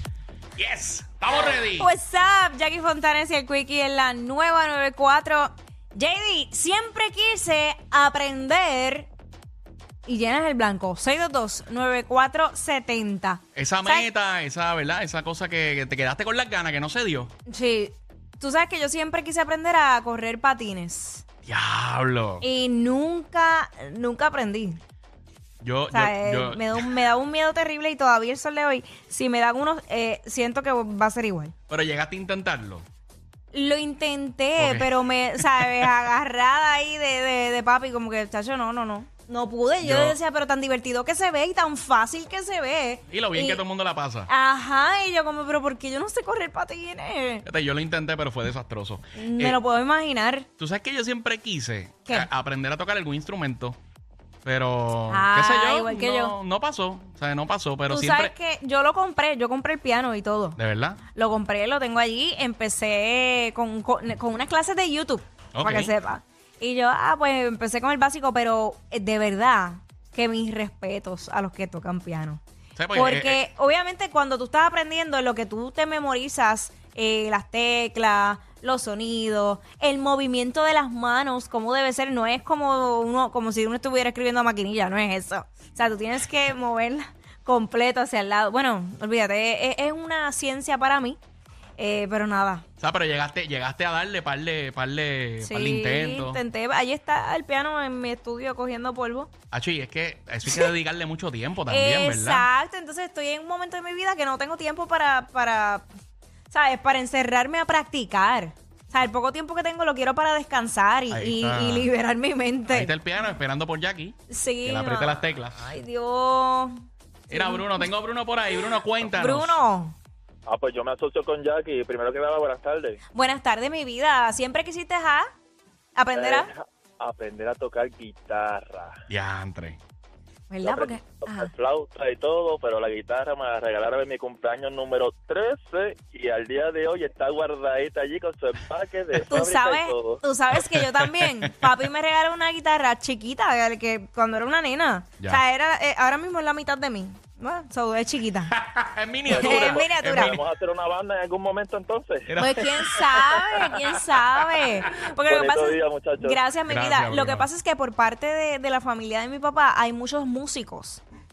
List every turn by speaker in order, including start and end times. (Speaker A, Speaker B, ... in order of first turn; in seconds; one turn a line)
Speaker A: 0.6-1.9
Speaker B: 1.8-9.1
Speaker B: 10.0-14.1
Speaker A: 13.5-17.3
Speaker B: 17.5-21.2
Speaker A: 21.4-22.4
Speaker B: 22.4-24.8
Speaker A: 25.6-26.9
Speaker B: 25.9-31.5
Speaker A: 31.7-32.9
Speaker B: 33.5-43.6
Speaker A: 34.6-35.9
Speaker A: 39.8-40.2
Speaker A: 43.1-44.3
Speaker B: 44.3-47.5
Speaker A: 47.4-49.6
Speaker B: 49.1-50.5
Speaker A: 50.6-53.8
Speaker A: 54.4-58.3
Speaker B: 55.1-56.4
Speaker B: 57.9-60.6
Speaker A: 60.6-61.0
Speaker B: 61.1-72.4
Speaker A: 65.5-65.9
Speaker A: 72.8-73.4
Speaker B: 72.9-91.2
Speaker B: 91.8-92.6
Speaker A: 92.8-96.4
Speaker B: 95.4-99.3
Speaker A: 99.5-102.5
Speaker B: 101.7-105.9
Speaker B: 106.5-112.9
Speaker A: 111.1-111.9
Speaker A: 112.7-115.6
Speaker B: 114.3-116.7
Speaker B: 117.3-117.9
Speaker A: 117.3-119.6
Speaker B: 119.0-119.9
Speaker C: 120.5-123.0
Speaker B: 123.1-125.3
Speaker B: 126.0-126.5
Speaker C: 126.1-128.9
Speaker A: 129.1-129.8
Speaker B: 130.5-131.5
Speaker C: 130.6-140.2
Speaker B: 139.2-148.5
Speaker A: 148.5-150.4
Speaker C: 149.3-152.2
Speaker B: 149.3-150.4
Speaker A: 152.3-153.2
Speaker B: 152.4-161.0
Speaker C: 155.2-156.4
Speaker A: 156.7-157.5